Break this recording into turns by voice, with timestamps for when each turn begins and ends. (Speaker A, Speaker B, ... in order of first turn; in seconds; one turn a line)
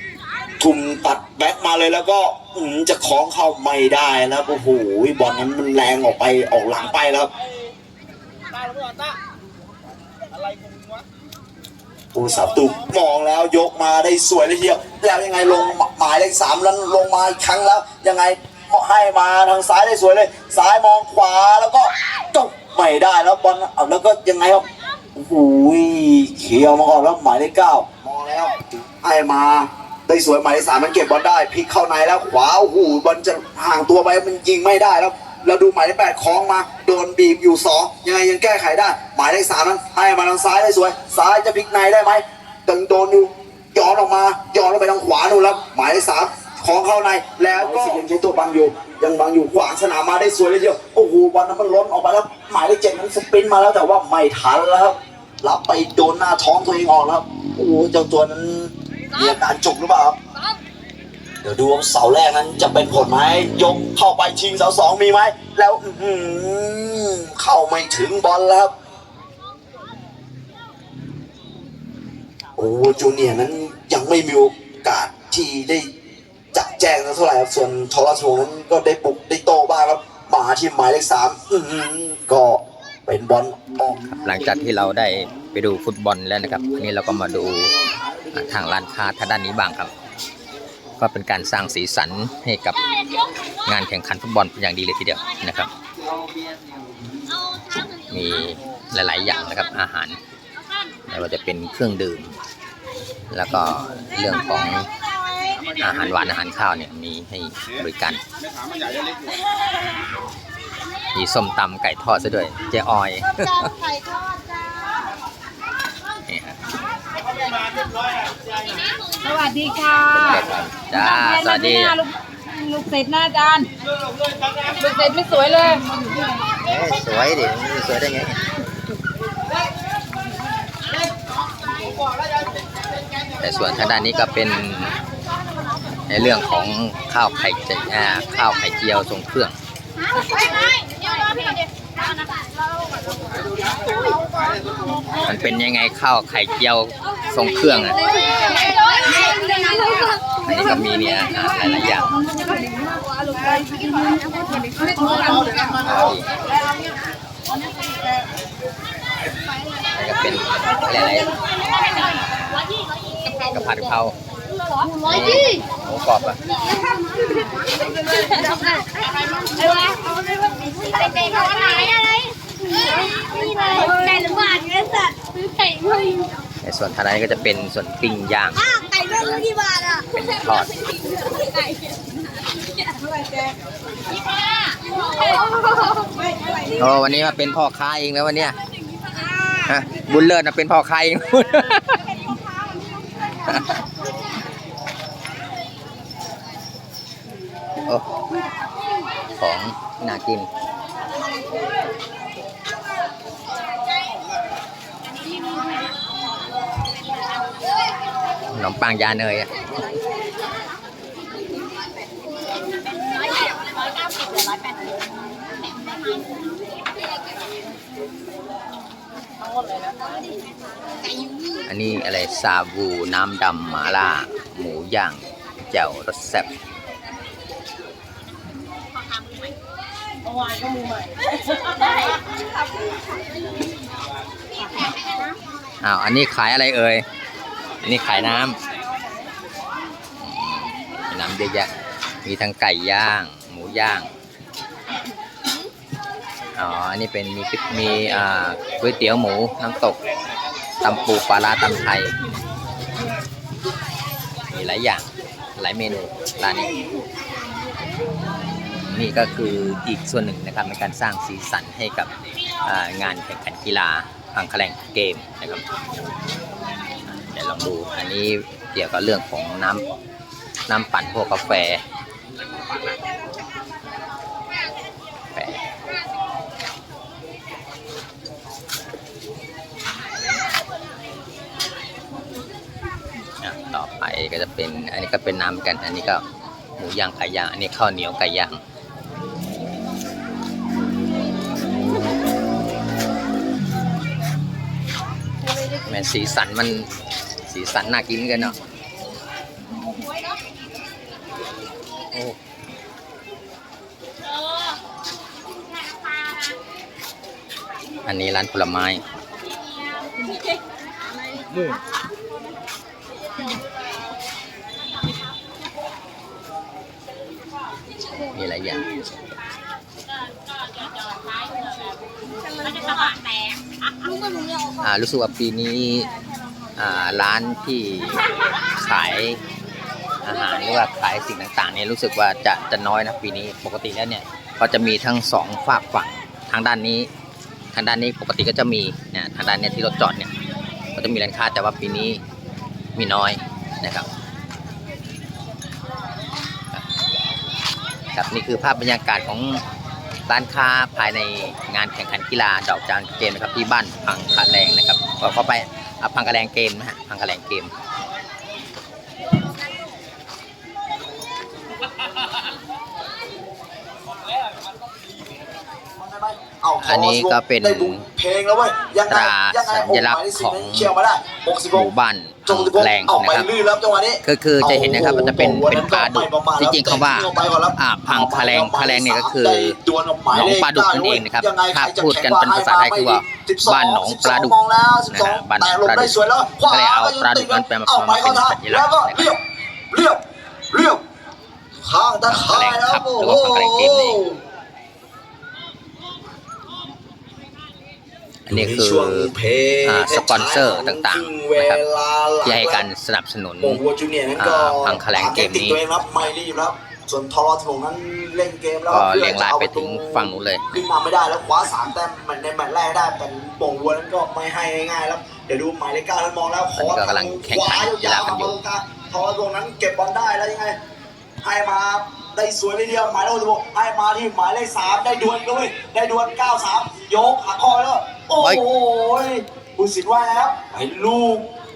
Speaker A: 0.6-7.3
Speaker A: 12.1-60.2
Speaker A: 61.4-68.7
Speaker A: 72.5-75.9
Speaker A: 76.5-84.4
Speaker B: 84.1-87.7
Speaker B: 88.3-89.9
Speaker B: 91.0-92.8
Speaker B: 93.6-95.7
Speaker B: 98.1-100.2
Speaker B: 101.0-102.4
Speaker B: 103.3-104.9
Speaker B: 105.7-108.2
Speaker B: 111.1-113.7
Speaker B: 116.2-116.6
Speaker C: 119.2-120.1
Speaker B: 119.9-122.0
Speaker C: 121.2-123.7
Speaker C: 124.7-125.9
Speaker B: 126.5-128.5
Speaker B: 133.4-135.0
Speaker B: 136.1-139.6
Speaker D: 140.2-141.5
Speaker B: 145.2-148.1
Speaker D: 148.2-150.2
Speaker B: 150.4-152.2
Speaker C: 152.2-155.4
Speaker D: 154.0-154.9
Speaker B: 155.5-156.3
Speaker B: 159.9-161.4
Speaker B: 163.3-164.2
Speaker B: 165.0-166.4
Speaker D: 167.6-176.3
Speaker B: 176.6-178.6
Speaker D: 178.7-180.0
Speaker B: 180.1-181.1
Speaker D: 181.3-183.0
Speaker D: 184.2-186.1
Speaker B: 186.6-188.6
Speaker B: 189.6-192.1
Speaker B: 193.4-193.8
Speaker B: 197.8-198.2
Speaker B: 199.4-200.5
Speaker B: 208.5-209.6
Speaker B: 221.7-226.5
Speaker B: 235.8-237.1
Speaker B: 237.8-238.6
Speaker B: 240.2-241.7
Speaker B: 242.2-244.1
Speaker B: 246.5-250.0
Speaker B: 250.8-252.2
Speaker B: 254.5-256.9
Speaker B: 258.8-265.7
Speaker B: 267.1-269.9
Speaker B: 270.7-271.8
Speaker B: 275.3-275.6
Speaker B: 283.4-286.2
Speaker B: 286.8-288.6
Speaker B: 295.8-296.9
Speaker B: 297.4-298.6
Speaker B: 302.1-302.4
Speaker B: 308.0-309.0
Speaker B: 318.3-319.0
Speaker B: 324.8-326.1
Speaker B: 326.8-329.4
Speaker B: 330.2-337.1
Speaker B: 337.7-340.4
Speaker B: 340.9-342.2
Speaker B: 342.9-344.1
Speaker B: 348.1-349.6
Speaker B: 350.3-357.7
Speaker A: 365.9-371.9
Speaker B: 366.8-368.1
Speaker B: 369.1-370.9
Speaker B: 371.7-373.5
Speaker A: 372.4-391.0
Speaker B: 374.2-379.8
Speaker B: 380.3-384.6
Speaker B: 385.1-389.3
Speaker A: 391.8-394.4
Speaker B: 392.3-394.2
Speaker B: 398.5-401.8
Speaker A: 398.5-402.8
Speaker B: 402.4-403.8
Speaker A: 403.6-420.8
Speaker B: 404.3-405.8
Speaker B: 408.9-410.8
Speaker B: 416.7-418.6
Speaker A: 421.4-431.5